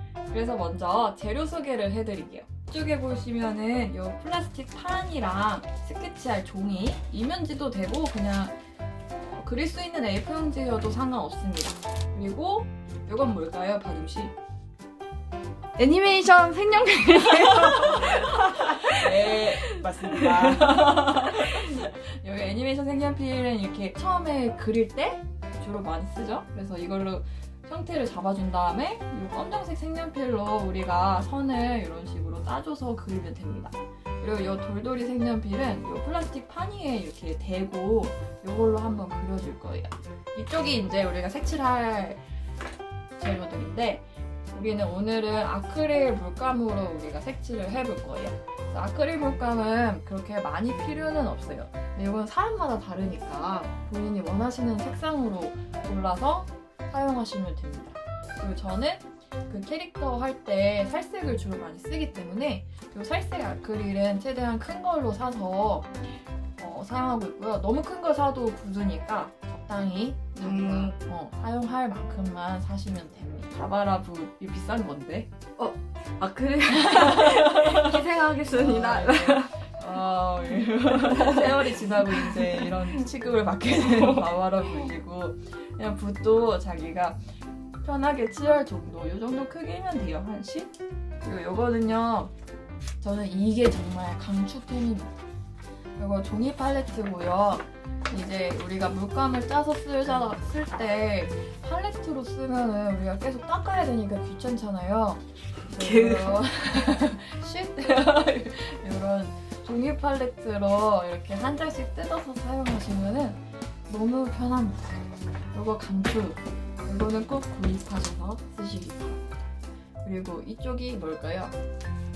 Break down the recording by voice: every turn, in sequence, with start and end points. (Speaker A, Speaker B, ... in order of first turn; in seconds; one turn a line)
Speaker A: 0.3-8.6
Speaker A: 9.2-14.3
Speaker B: 15.8-21.6
Speaker A: 18.9-42.3
Speaker A: 43.2-66.0
Speaker A: 66.6-75.3
Speaker B: 70.4-71.0
Speaker B: 75.6-79.6
Speaker A: 76.7-87.2
Speaker B: 81.0-82.7
Speaker A: 87.8-92.3
Speaker A: 93.0-95.1
Speaker A: 96.0-114.9
Speaker B: 105.7-106.4
Speaker A: 115.5-119.2
Speaker A: 120.0-121.5